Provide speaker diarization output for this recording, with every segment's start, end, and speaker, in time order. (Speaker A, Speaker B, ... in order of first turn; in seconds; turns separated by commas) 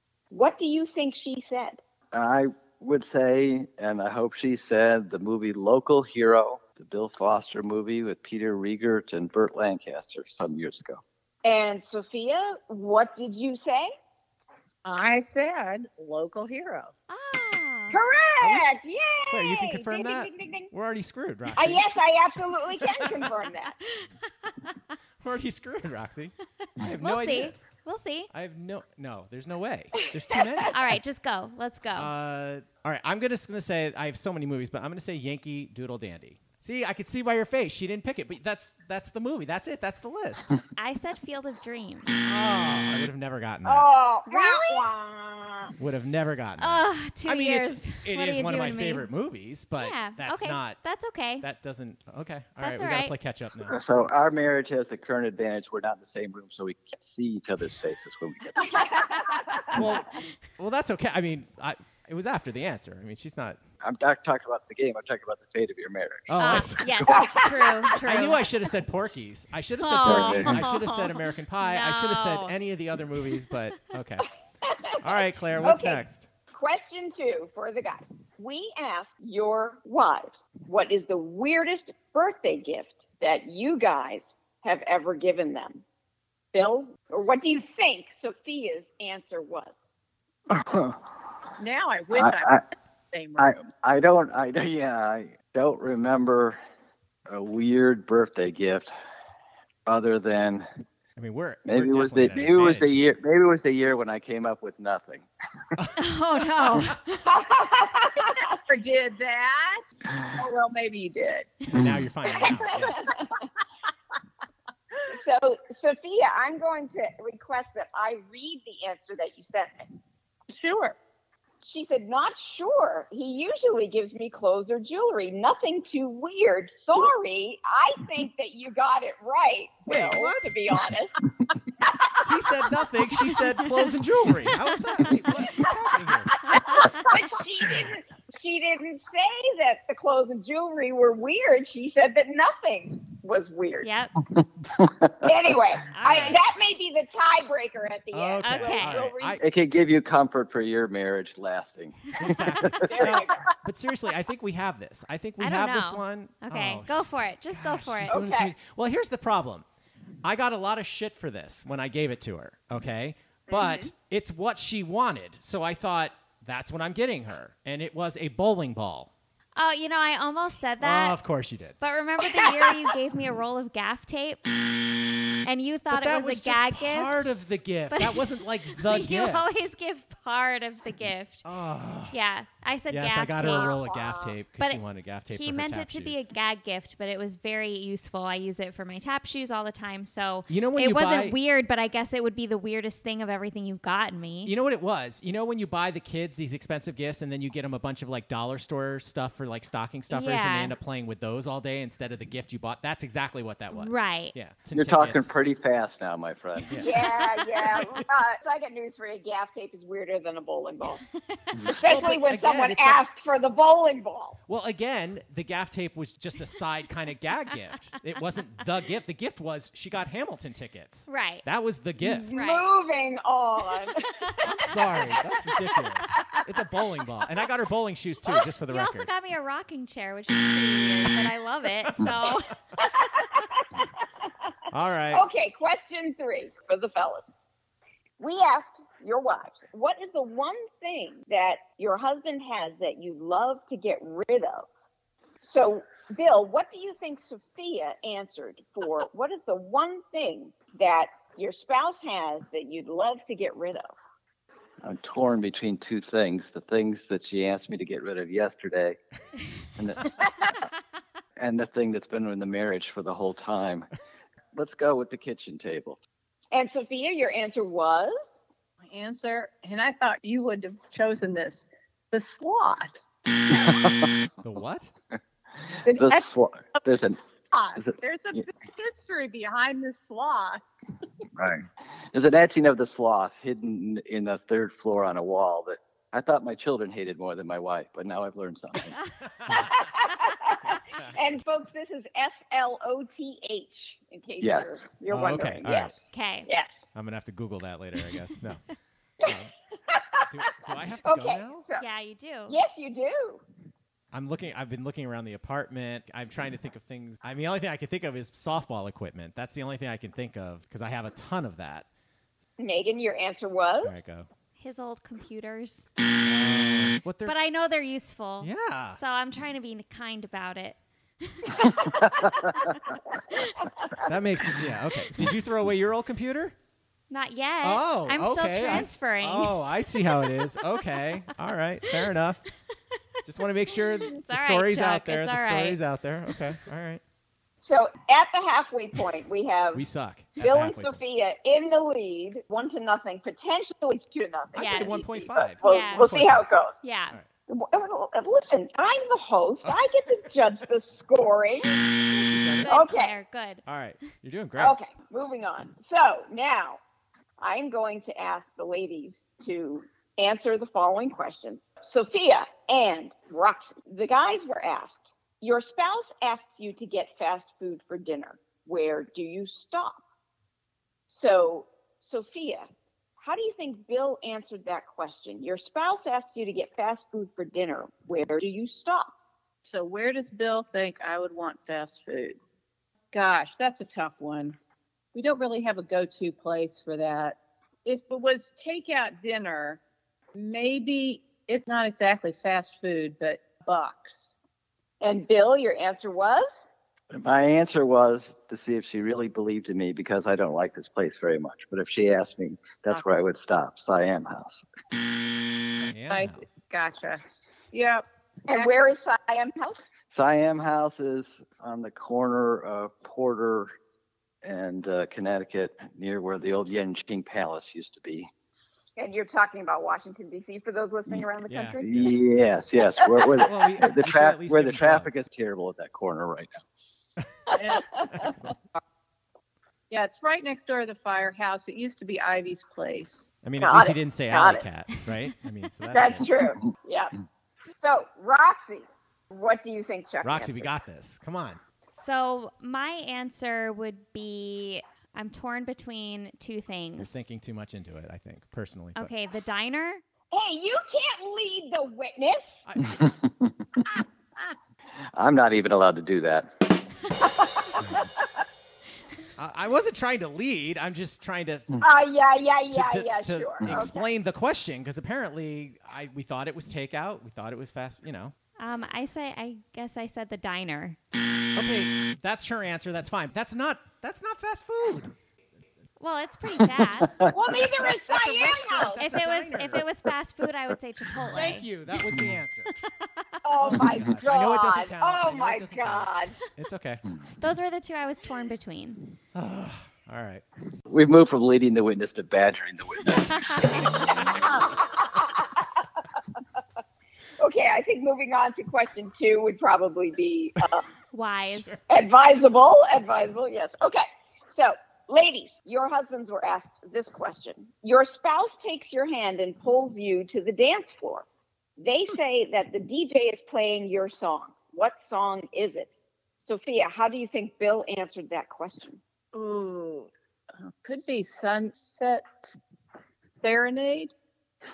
Speaker A: 0.3-1.8, Speaker B: 2.1-11.0, Speaker A: 11.4-13.9, Speaker C: 14.8-16.9, Speaker D: 17.1-18.0, Speaker A: 17.9-20.7, Speaker E: 18.4-18.7, Speaker E: 19.3-21.9, Speaker A: 21.6-23.7, Speaker E: 25.2-27.6, Speaker D: 26.8-28.3, Speaker E: 28.3-30.8, Speaker D: 30.7-32.1, Speaker E: 31.9-40.5, Speaker D: 40.8-42.4, Speaker E: 42.3-43.9, Speaker A: 43.6-45.7, Speaker D: 44.3-44.9, Speaker E: 45.8-50.8, Speaker D: 46.6-49.1, Speaker D: 49.8-51.4, Speaker E: 51.4-54.0, Speaker D: 52.6-53.1, Speaker B: 53.6-59.0, Speaker A: 58.7-59.8, Speaker E: 59.7-63.6, Speaker B: 63.8-67.0, Speaker E: 66.3-67.2, Speaker D: 66.4-68.5, Speaker A: 67.2-67.8, Speaker E: 68.0-74.3, Speaker D: 69.8-72.5, Speaker B: 70.0-70.7, Speaker A: 74.6-75.0, Speaker E: 75.0-76.3, Speaker A: 75.6-85.8, Speaker A: 86.5-89.7, Speaker B: 90.5-91.0, Speaker C: 91.6-93.5, Speaker B: 92.1-92.6, Speaker B: 93.4-96.6, Speaker B: 97.3-98.9, Speaker B: 99.8-100.7, Speaker E: 101.2-103.0, Speaker B: 101.7-105.3, Speaker D: 106.0-107.3, Speaker E: 106.6-106.9, Speaker A: 107.3-108.6, Speaker C: 108.2-111.6, Speaker E: 111.7-113.1, Speaker A: 112.4-113.3, Speaker A: 115.1-119.9, Speaker C: 120.5-121.0, Speaker A: 121.6-131.1, Speaker E: 129.9-130.5, Speaker E: 132.2-136.6, Speaker A: 136.3-143.9, Speaker D: 136.7-137.1, Speaker D: 143.8-144.2, Speaker B: 144.7-145.5, Speaker A: 145.2-149.4, Speaker D: 145.9-146.4, Speaker E: 146.0-146.4, Speaker E: 148.1-149.4, Speaker D: 148.4-149.1, Speaker B: 149.4-152.9, Speaker E: 152.2-159.6, Speaker A: 152.8-153.4, Speaker D: 155.4-158.2, Speaker A: 158.1-158.5, Speaker E: 160.2-169.1, Speaker A: 163.5-163.8, Speaker D: 169.6-171.2, Speaker E: 170.8-171.8, Speaker D: 171.8-174.4, Speaker D: 175.4-177.3, Speaker E: 175.9-179.7, Speaker D: 177.9-181.4, Speaker E: 181.4-182.1, Speaker D: 182.1-183.8, Speaker E: 182.9-186.2, Speaker A: 183.4-184.4, Speaker D: 184.6-194.5, Speaker E: 190.5-191.3, Speaker E: 194.4-205.3, Speaker D: 200.1-200.7, Speaker D: 203.7-204.3, Speaker B: 204.7-206.9, Speaker E: 206.7-208.1, Speaker A: 206.8-211.0, Speaker D: 211.3-211.7, Speaker E: 211.7-213.0, Speaker A: 211.7-214.4, Speaker E: 214.5-222.3, Speaker D: 221.1-221.4, Speaker A: 222.0-225.2, Speaker D: 222.3-222.6, Speaker D: 224.3-225.1, Speaker E: 224.5-229.1, Speaker D: 228.7-232.5, Speaker A: 232.8-234.3, Speaker E: 234.7-235.2, Speaker A: 235.1-237.2, Speaker A: 238.2-244.7, Speaker A: 245.4-253.9, Speaker B: 254.8-259.0, Speaker B: 259.8-260.1, Speaker B: 261.4-263.9, Speaker B: 264.5-266.0, Speaker A: 266.5-268.3, Speaker C: 268.9-273.0, Speaker B: 273.5-274.1, Speaker E: 274.4-274.9, Speaker C: 275.9-276.9, Speaker B: 275.9-277.2, Speaker C: 277.5-280.6, Speaker B: 277.8-278.4, Speaker B: 281.3-289.0, Speaker E: 289.3-289.8, Speaker A: 289.5-290.6, Speaker E: 290.6-291.2, Speaker A: 291.1-295.9, Speaker B: 294.4-294.8, Speaker E: 295.1-295.9, Speaker D: 296.1-296.5, Speaker A: 296.4-296.8, Speaker E: 296.9-298.6, Speaker E: 299.2-299.5, Speaker A: 299.9-300.3, Speaker E: 300.3-301.6, Speaker A: 301.0-301.8, Speaker D: 301.8-302.6, Speaker A: 302.5-303.4, Speaker E: 304.1-311.9, Speaker A: 312.6-313.9, Speaker E: 313.8-314.3, Speaker D: 314.6-315.9, Speaker E: 316.2-317.3, Speaker D: 317.2-322.0, Speaker E: 318.4-319.0, Speaker D: 323.3-323.7, Speaker A: 323.8-324.0, Speaker E: 324.1-326.5, Speaker D: 327.1-329.5, Speaker E: 327.6-332.4, Speaker E: 333.2-337.0, Speaker D: 333.7-335.8, Speaker A: 337.6-339.8, Speaker E: 339.7-341.0, Speaker A: 340.4-346.8, Speaker E: 344.5-346.5, Speaker D: 344.6-345.1, Speaker D: 345.6-346.1, Speaker D: 346.8-347.1, Speaker A: 347.5-351.7, Speaker E: 352.3-352.8, Speaker D: 352.6-353.6, Speaker A: 352.7-353.1, Speaker E: 353.6-354.7, Speaker A: 354.6-356.8, Speaker A: 357.4-370.0, Speaker A: 371.1-372.7, Speaker A: 373.2-379.1, Speaker C: 379.6-382.4, Speaker C: 383.1-384.6, Speaker C: 385.1-389.8, Speaker C: 390.3-394.3, Speaker A: 395.0-396.6, Speaker B: 397.1-404.6, Speaker E: 405.8-406.6, Speaker C: 406.1-408.7, Speaker A: 408.5-409.8, Speaker B: 410.1-413.7, Speaker B: 414.4-418.3, Speaker A: 419.0-422.1, Speaker E: 421.5-422.1, Speaker B: 421.8-426.6, Speaker A: 423.0-423.4, Speaker E: 423.4-425.2, Speaker C: 427.5-427.8, Speaker A: 427.5-428.3, Speaker E: 428.1-428.5, Speaker C: 429.9-433.3, Speaker E: 433.4-436.3, Speaker A: 433.6-434.6, Speaker A: 435.9-437.1, Speaker A: 437.8-440.7, Speaker E: 440.2-441.6, Speaker D: 441.9-447.2, Speaker E: 447.0-449.1, Speaker D: 449.0-450.0, Speaker A: 450.3-452.5, Speaker E: 452.6-453.0, Speaker B: 452.8-453.5, Speaker B: 455.1-456.5, Speaker A: 457.5-457.8, Speaker E: 459.4-461.8, Speaker A: 461.8-464.1, Speaker E: 462.7-468.3, Speaker D: 468.6-471.0, Speaker E: 471.5-475.1, Speaker D: 476.0-477.2, Speaker B: 477.0-477.3, Speaker A: 477.3-479.0, Speaker E: 477.4-479.8, Speaker D: 479.0-481.7, Speaker E: 481.3-482.7, Speaker A: 483.4-486.4, Speaker E: 483.6-487.0, Speaker D: 487.4-489.0, Speaker E: 489.3-490.4, Speaker B: 490.9-493.8, Speaker D: 493.4-493.8, Speaker A: 494.5-496.0, Speaker A: 497.4-500.9, Speaker D: 501.1-501.8, Speaker E: 501.3-501.8, Speaker A: 501.9-511.2, Speaker A: 511.8-515.9, Speaker A: 516.4-519.0, Speaker C: 519.3-522.5, Speaker C: 523.4-524.1